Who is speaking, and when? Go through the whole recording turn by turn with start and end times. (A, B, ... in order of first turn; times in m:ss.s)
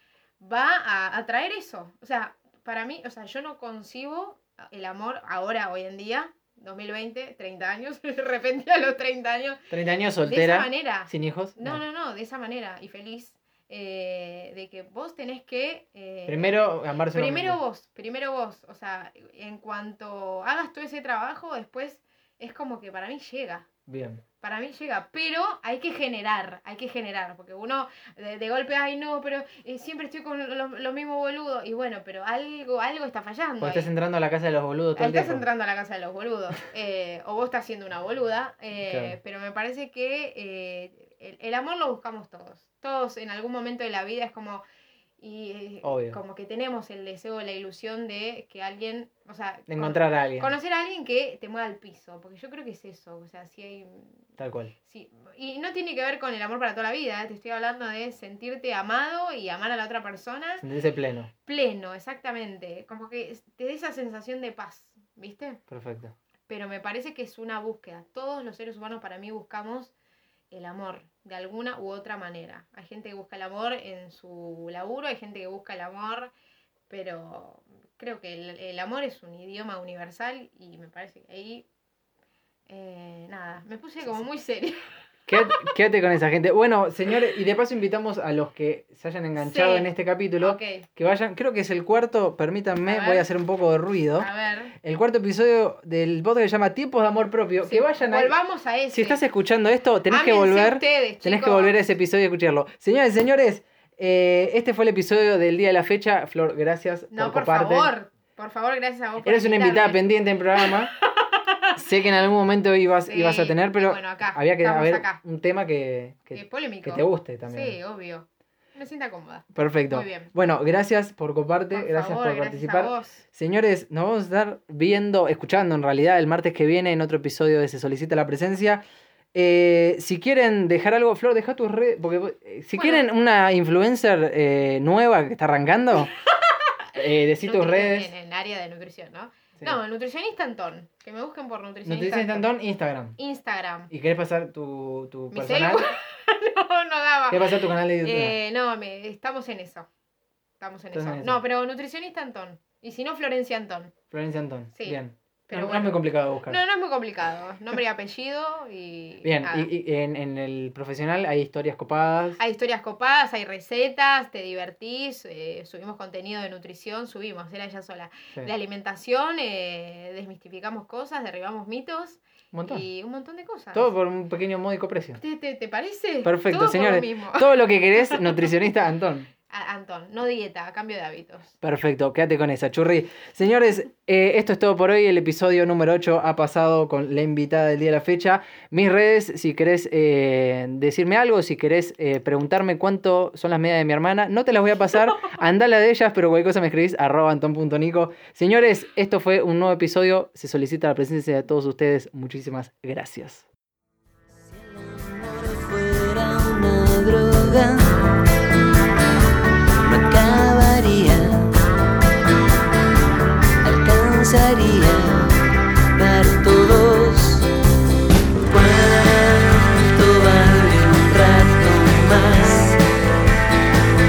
0:00.4-0:16.6 A
0:09.7-0:11.8 B
0:16.3-0:17.6 B
0:17.1-0:23.7 A
0:23.9-0:24.2 B
0:24.4-0:33.9 A
0:33.6-0:35.4 B
0:35.0-0:44.6 A
0:38.8-0:39.2 B
0:45.2-0:54.2 A
0:45.8-0:46.2 B
0:49.7-0:50.5 B
0:54.4-0:54.7 B
0:54.8-1:00.6 A
1:00.6-1:01.3 B
1:01.4-1:05.6 A
1:05.7-1:06.1 B
1:06.5-1:09.9 A
1:10.5-1:16.3 A
1:16.9-1:21.6 A
1:22.7-1:24.8 A
1:25.3-1:34.3 B
1:29.4-1:29.9 A
1:30.4-1:30.9 A
1:32.8-1:33.2 A
1:34.2-1:34.7 A
1:34.8-1:38.4 B
1:37.6-1:39.2 A
1:38.9-1:47.9 B
1:40.1-1:41.8 A
1:47.1-1:50.0 A
1:49.2-1:50.9 B
1:50.5-1:51.7 A
1:51.8-1:57.8 B
1:53.1-1:55.2 A
1:56.3-2:00.3 A
1:59.5-2:08.8 B
2:01.7-2:03.2 A
2:09.3-2:16.1 B
2:12.7-2:13.1 A
2:16.4-2:16.8 A
2:16.9-2:18.1 B
2:17.4-2:22.5 A
2:21.8-2:23.2 B
2:23.2-2:23.9 A
2:23.9-2:25.8 B
2:25.3-2:29.9 A
2:27.3-2:28.4 B
2:30.6-2:33.9 A
2:30.9-2:31.4 B
2:34.1-2:36.6 B
2:34.7-2:36.0 A
2:36.5-2:39.7 A
2:39.2-2:42.4 B
2:42.4-2:53.9 A
2:52.5-2:52.8 B
2:53.7-2:55.2 B
2:55.2-2:58.5 A
2:56.2-2:59.3 B
2:59.5-3:01.5 A
3:01.6-3:23.5 B
3:24.4-3:28.2 C
3:29.7-3:31.5 C
3:33.6-3:35.4 C
3:36.0-3:37.5 C
3:38.4-3:42.8 C